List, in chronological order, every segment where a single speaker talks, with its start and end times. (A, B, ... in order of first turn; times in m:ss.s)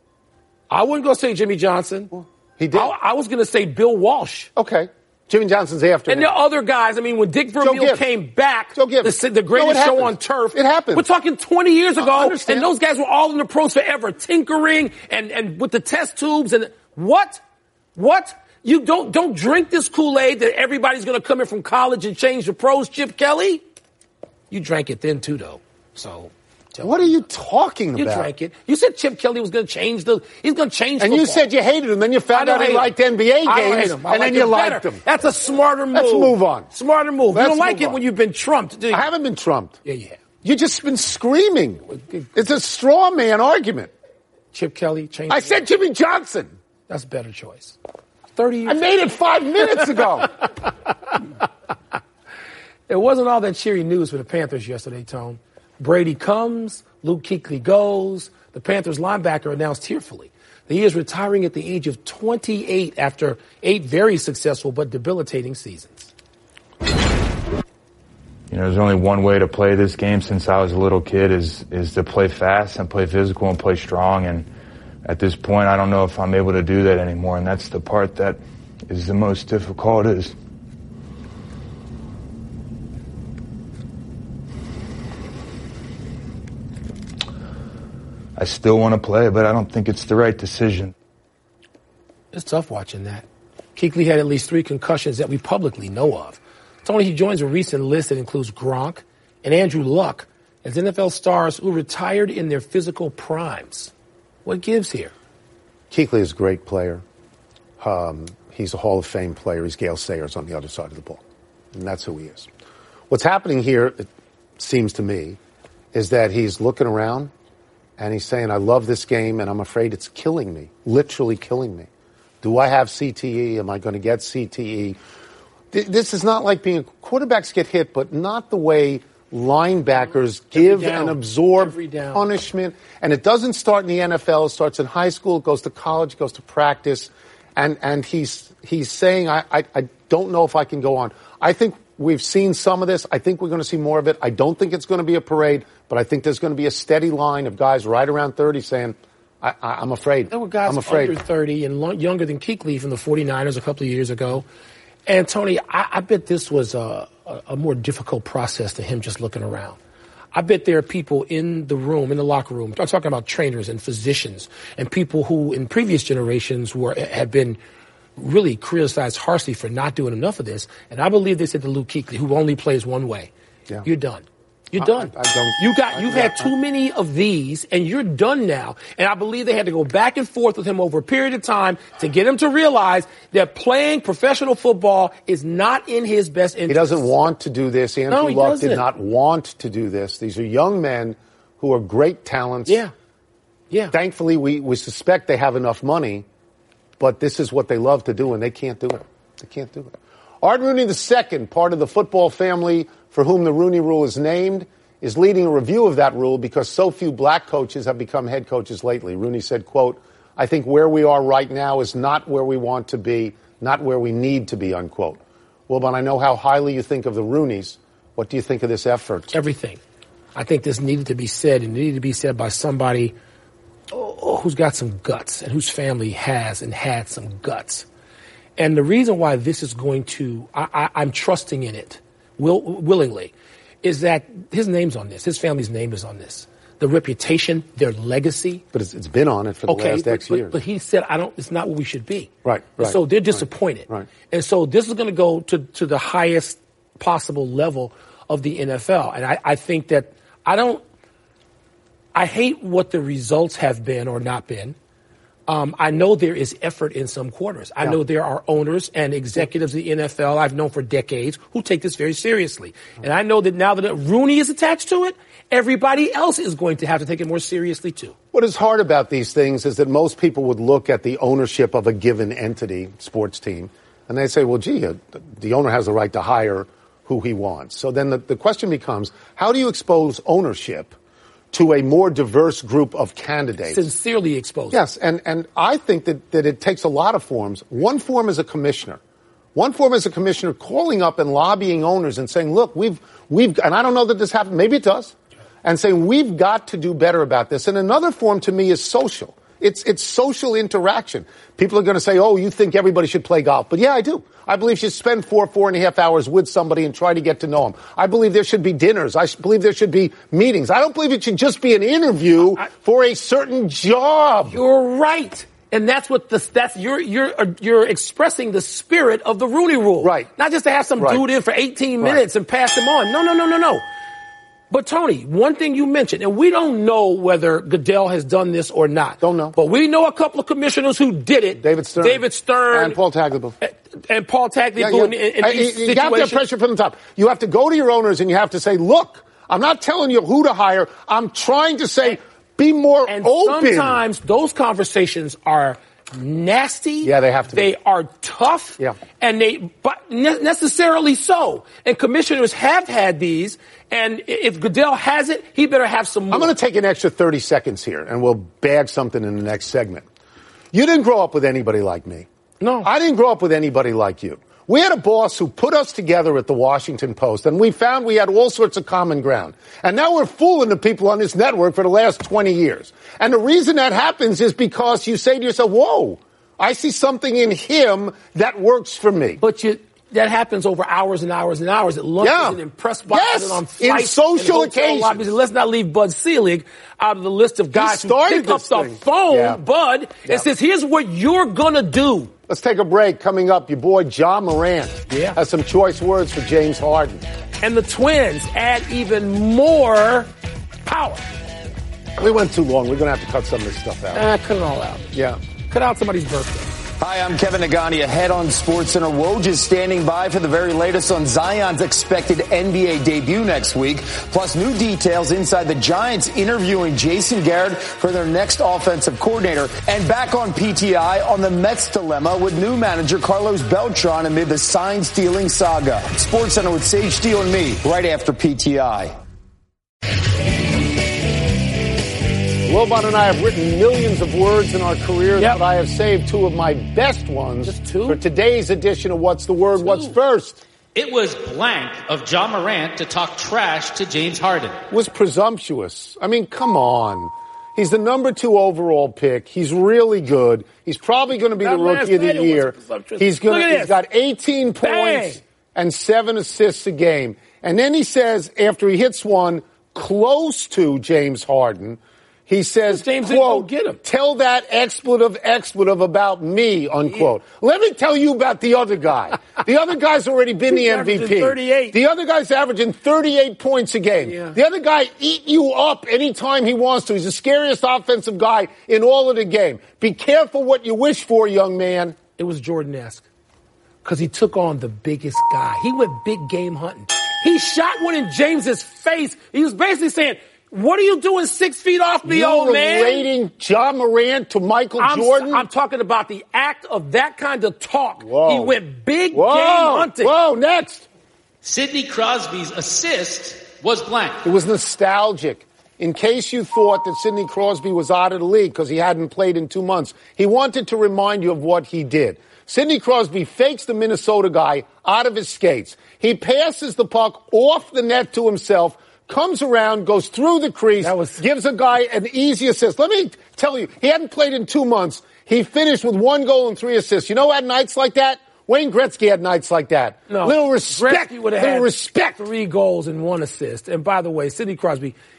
0:00.7-0:02.1 A
0:02.1-0:02.9 B
0:02.7-0:04.5 A
0:04.6-0:06.3 B
0:06.1-0:17.4 A
0:07.6-0:08.0 B
0:08.8-0:11.1 B
0:12.0-0:12.7 B
0:18.0-0:23.6 A
0:24.5-0:27.1 A
0:26.8-0:28.3 B
0:28.0-0:31.5 A
0:31.0-0:35.0 B
0:32.3-0:39.1 A
0:35.9-0:36.7 B
0:37.3-0:38.0 B
0:38.9-0:39.8 B
0:39.8-0:40.2 A
0:40.4-0:43.9 B
0:42.0-0:42.2 A
0:44.5-0:45.6 A
0:45.3-0:46.5 B
0:46.9-0:47.8 A
0:48.4-0:48.8 A
0:48.7-0:50.3 B
0:52.9-1:06.1 A
1:08.5-1:14.5 C
1:15.0-1:20.3 C
1:28.4-1:30.9 C
1:32.3-1:43.9 A
1:44.4-1:45.1 A
1:45.9-1:47.0 B
1:47.8-1:51.2 B
1:51.7-1:52.5 B
1:53.1-1:55.4 B
1:55.9-1:57.3 B
1:58.0-2:01.9 B
2:02.4-2:05.0 B
2:05.7-2:31.2 B
2:10.6-2:12.2 A
2:30.3-2:34.4 A
2:35.1-2:39.8 A
2:40.3-2:47.6 A
2:48.2-2:53.3 A
2:53.8-3:07.1 A
2:54.8-2:56.5 B
3:06.7-3:12.8 B
3:08.1-3:08.9 A
3:12.7-3:12.9 A
3:13.9-3:16.2 B
3:17.0-3:39.4 B
3:39.3-3:39.8 A
3:40.4-3:43.1 A
3:43.9-3:47.9 A
3:48.6-3:53.3 A
3:53.8-3:58.6 A
3:58.7-4:00.6 B
3:59.7-4:10.8 A
4:02.4-4:04.1 B
4:12.1-4:14.8 A
4:15.5-4:28.1 A
4:28.3-4:40.9 B
4:41.5-4:43.8 B
4:43.7-4:44.8 A
4:44.7-4:49.0 B
4:49.6-5:14.6 B
5:14.5-5:23.8 A
5:20.0-5:20.3 B
5:21.0-5:21.2 B
5:24.7-5:33.0 A
5:29.2-5:29.6 B
5:31.6-5:33.6 B
5:33.6-5:36.4 A
5:34.8-5:44.0 B
5:43.1-5:56.5 A
5:47.0-5:47.7 B
5:56.3-6:00.0 B
6:00.7-6:02.3 B
6:02.6-6:02.9 A
6:02.8-6:19.4 B
6:19.4-6:32.3 A
6:22.2-6:25.4 B
6:27.7-6:29.6 B
6:32.5-6:37.2 B
6:35.1-6:35.4 A
6:37.6-6:40.3 A
6:40.8-6:41.2 A
6:42.2-6:44.3 B
6:44.1-6:45.1 A
6:45.1-6:45.4 B
6:45.7-6:46.7 A
6:47.0-7:09.1 D
7:12.6-7:20.6 B
7:17.6-7:18.2 A
7:19.8-7:20.2 A
7:21.0-7:24.8 E
7:24.9-8:02.2 B
7:31.6-7:34.0 A
7:34.8-7:35.4 A
7:42.9-7:44.0 A
7:50.7-7:52.0 A
7:54.2-7:54.6 A
8:02.4-8:03.3 A
8:04.0-8:13.3 A
8:12.2-8:15.7 B
8:15.0-8:20.3 A
8:18.2-8:18.8 B
8:19.3-8:21.1 B
8:21.6-8:24.4 E
8:24.4-8:52.5 B
8:41.0-8:41.4 A
8:50.3-8:55.1 A